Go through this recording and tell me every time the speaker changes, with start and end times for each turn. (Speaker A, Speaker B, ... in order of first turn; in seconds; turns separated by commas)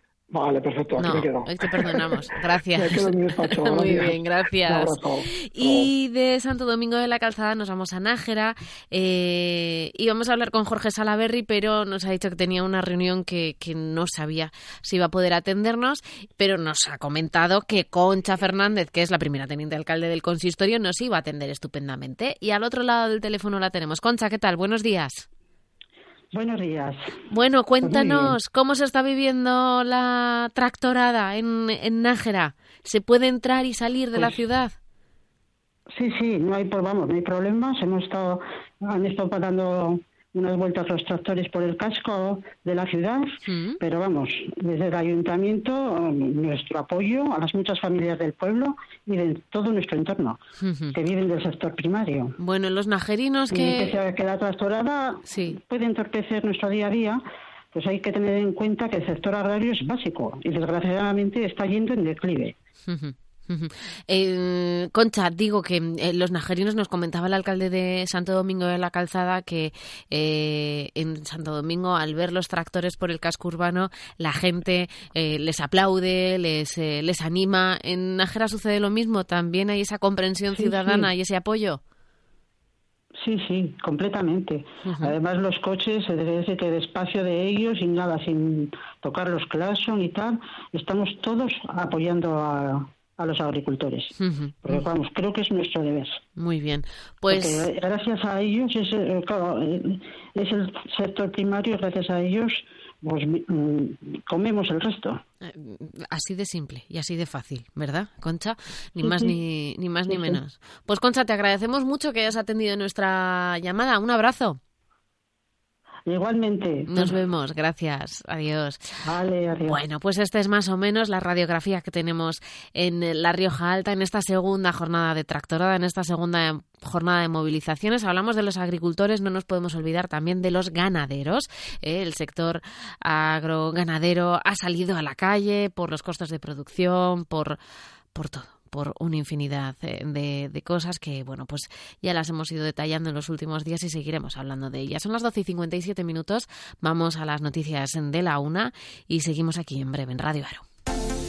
Speaker A: 0.3-5.9, Speaker B: 1.0-25.3, Speaker C: 26.3-27.1, Speaker B: 27.3-34.8, Speaker C: 27.8-28.4, Speaker C: 35.9-50.4, Speaker B: 43.5-43.8, Speaker B: 50.6-51.0, Speaker C: 50.9-52.3, Speaker B: 52.4-54.0, Speaker C: 53.5-57.2, Speaker B: 55.3-55.6, Speaker C: 57.7-62.5, Speaker B: 62.9-81.8, Speaker C: 80.5-81.1, Speaker C: 83.2-94.1, Speaker B: 84.9-85.1, Speaker B: 94.2-94.9, Speaker C: 94.6-96.2, Speaker B: 96.4-97.7, Speaker C: 97.3-105.2, Speaker B: 105.4-114.6, Speaker C: 109.0-109.4, Speaker C: 110.1-110.4, Speaker C: 116.1-117.2, Speaker B: 116.9-118.8, Speaker C: 119.0-119.8, Speaker B: 119.7-137.6, Speaker B: 138.1-150.6